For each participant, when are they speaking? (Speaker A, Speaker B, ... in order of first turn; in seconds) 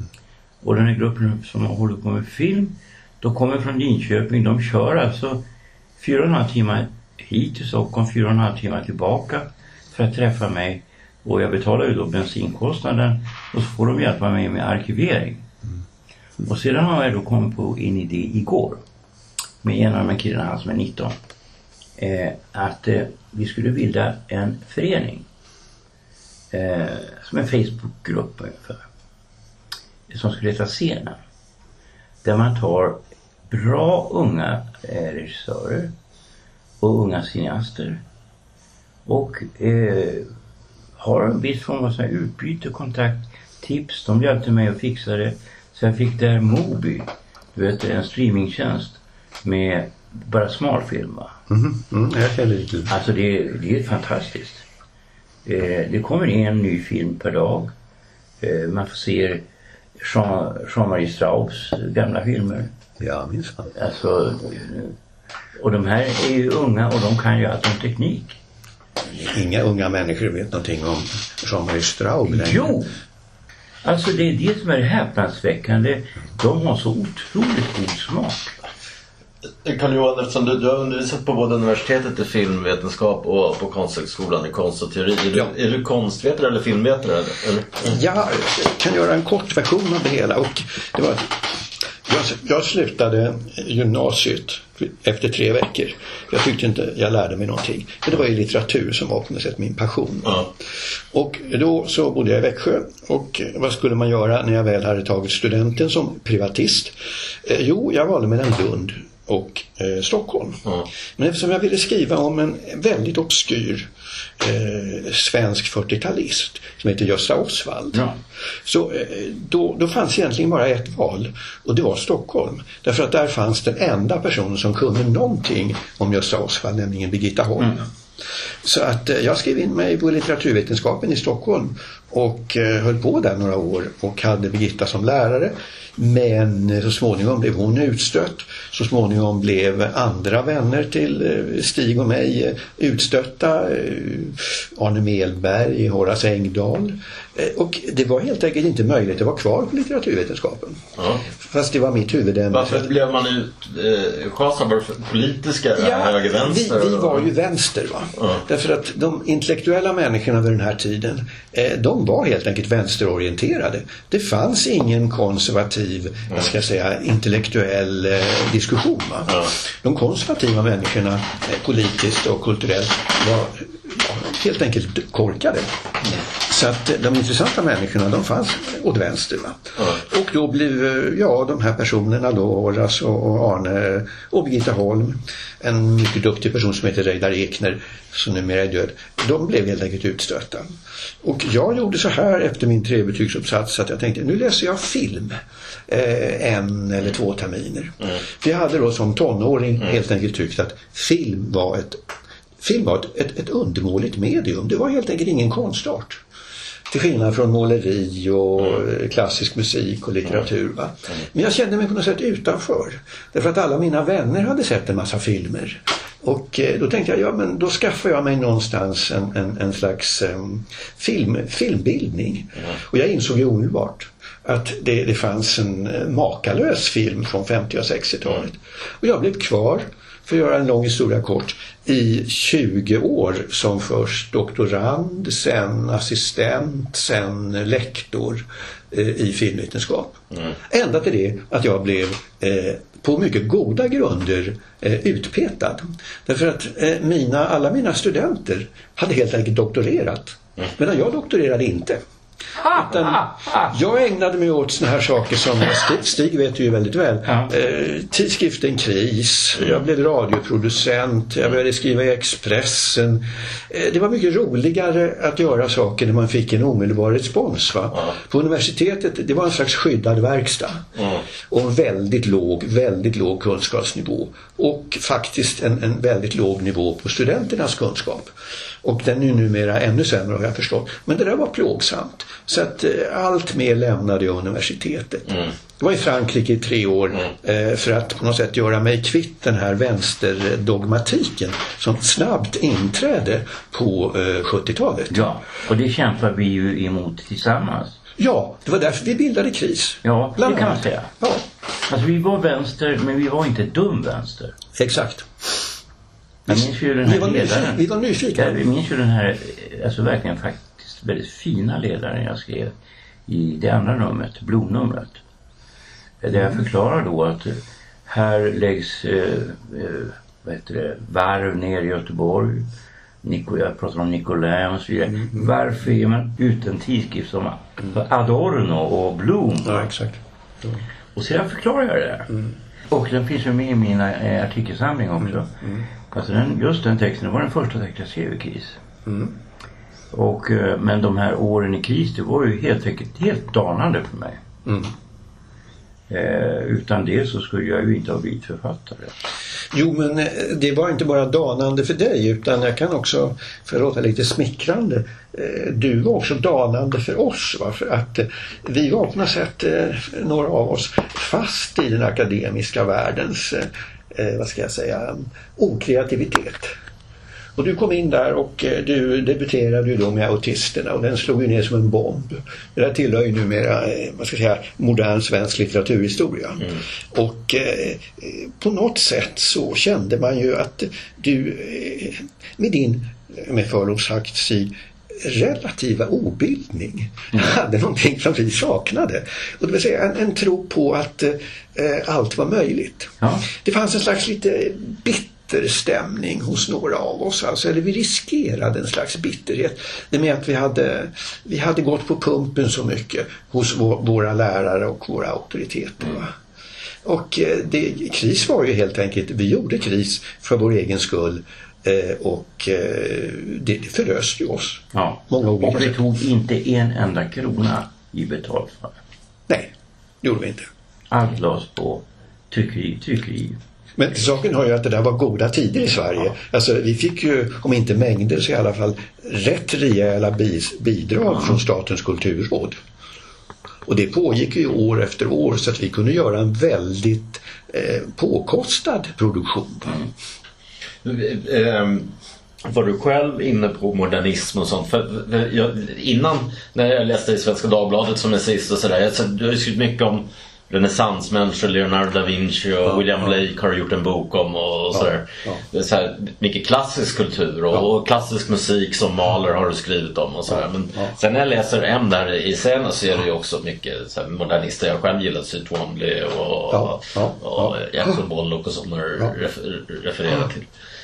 Speaker A: 0.6-5.4, 6.0-15.4, 16.4-18.8, 19.6-21.2, 22.0-25.2, 26.5-28.8, 30.1-31.2, 32.2-35.9, 36.8-38.0, 39.0-40.3, 41.0-51.3, 52.9-54.6, 55.4-57.7, 58.4-59.4, 60.0-62.7, 63.7-65.0, 65.5-68.4, 72.3-72.9, 73.8-78.5, 295.1-298.0, 300.0-301.1, 301.9-304.5, 306.5-312.7, 313.3-315.2, 316.2-322.7, 323.2-329.9, 331.1-332.3, 332.9-335.5, 336.1-338.8, 340.1-344.4, 346.1-349.1, 393.2-393.5, 414.9-419.0, 421.1-423.6
Speaker B: 51.5-52.9, 63.0-63.7, 69.0-72.7, 87.8-91.5, 92.0-110.6, 111.2-113.9, 114.4-118.0, 118.6-127.8, 128.6-150.8, 151.4-152.9, 155.8-175.7, 176.3-190.7, 191.2-202.0, 202.6-206.2, 206.9-252.0, 252.7-270.9, 271.5-295.3, 298.2-301.4, 304.8-305.3, 306.5-308.6, 329.6-330.8, 339.1-339.3, 344.6-344.9, 349.7-366.7, 367.6-406.3, 407.0-415.9, 419.5-420.7, 424.0-432.8, 433.9-440.0, 454.9-455.6, 466.7-468.2
Speaker C: 79.6-87.9, 151.0-151.2, 152.5-157.3, 158.2-158.4, 271.0-271.2, 441.0-470.7